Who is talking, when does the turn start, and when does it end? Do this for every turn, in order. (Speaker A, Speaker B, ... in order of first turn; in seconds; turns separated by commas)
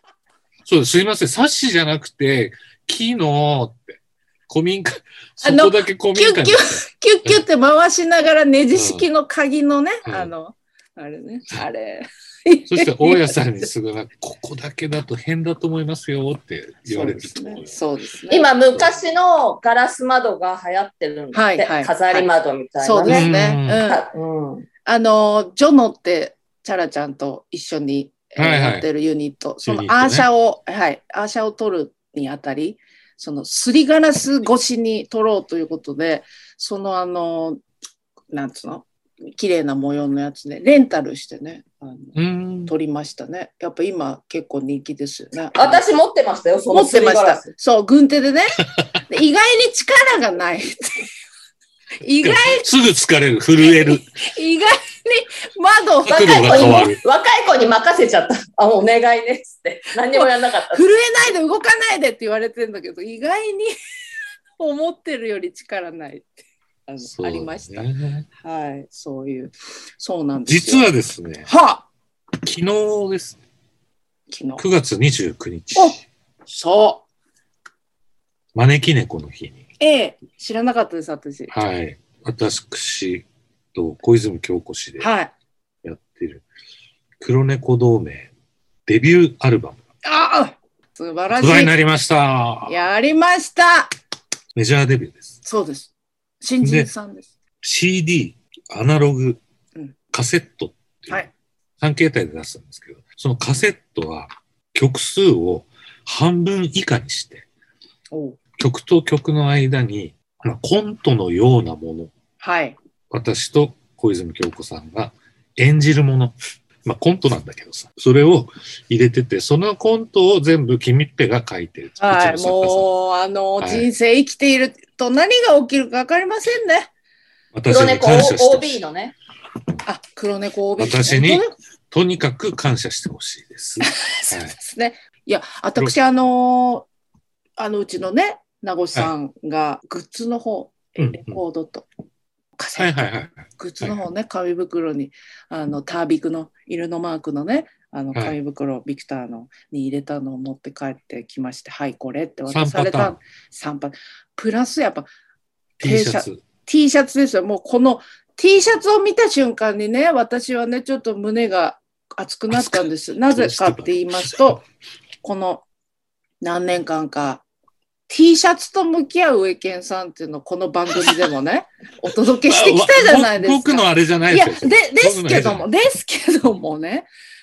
Speaker A: 0.7-7.4, Speaker B: 5.4-13.4, Speaker A: 8.7-9.1, Speaker A: 10.1-10.3, Speaker A: 12.7-17.8, Speaker B: 16.9-18.5, Speaker C: 18.3-23.3, Speaker B: 21.3-22.3, Speaker B: 22.8-24.0, Speaker A: 23.1-23.9, Speaker C: 23.9-24.7, Speaker B: 24.9-37.6, Speaker A: 28.4-28.9, Speaker A: 29.6-30.3, Speaker B: 38.3-42.1, Speaker A: 42.1-42.7, Speaker B: 42.7-45.8, Speaker C: 45.6-47.5, Speaker B: 46.7-51.1, Speaker B: 52.0-52.7, Speaker A: 52.2-54.1, Speaker B: 53.6-56.9, Speaker A: 56.0-57.0, Speaker C: 56.1-61.3, Speaker B: 60.1-63.7, Speaker B: 64.6-66.3, Speaker B: 66.9-70.9, Speaker A: 67.0-68.3, Speaker A: 70.5-71.5, Speaker B: 71.5-71.9, Speaker A: 72.4-73.4, Speaker B: 74.3-74.6, Speaker A: 74.6-76.0, Speaker B: 75.8-77.0, Speaker A: 78.5-79.6, Speaker B: 79.8-81.5, Speaker A: 81.5-85.1, Speaker B: 85.0-85.3, Speaker A: 85.8-86.5, Speaker A: 87.2-88.3, Speaker A: 88.9-89.8, Speaker B: 90.0-91.7, Speaker A: 91.3-92.8, Speaker B: 92.7-93.9, Speaker A: 94.5-95.3, Speaker B: 95.4-97.3, Speaker A: 96.6-96.9, Speaker A: 97.6-99.4, Speaker A: 100.1-107.5, Speaker B: 108.1-108.4, Speaker A: 108.6-112.1, Speaker B: 112.4-112.8, Speaker A: 113.1-122.9, Speaker B: 122.0-126.9, Speaker A: 123.6-123.9, Speaker A: 127.5-128.7, Speaker C: 127.7-129.2, Speaker B: 129.8-131.5, Speaker A: 130.8-134.6, Speaker B: 133.8-136.9, Speaker B: 137.6-141.9, Speaker A: 141.0-141.4, Speaker B: 142.6-143.0, Speaker A: 142.8-144.0, Speaker B: 143.6-155.1, Speaker A: 152.5-153.2, Speaker A: 155.8-156.4, Speaker B: 155.8-164.7, Speaker A: 162.5-164.4, Speaker B: 165.2-165.6, Speaker B: 166.4-167.4, Speaker B: 168.1-177.1, Speaker A: 172.3-175.7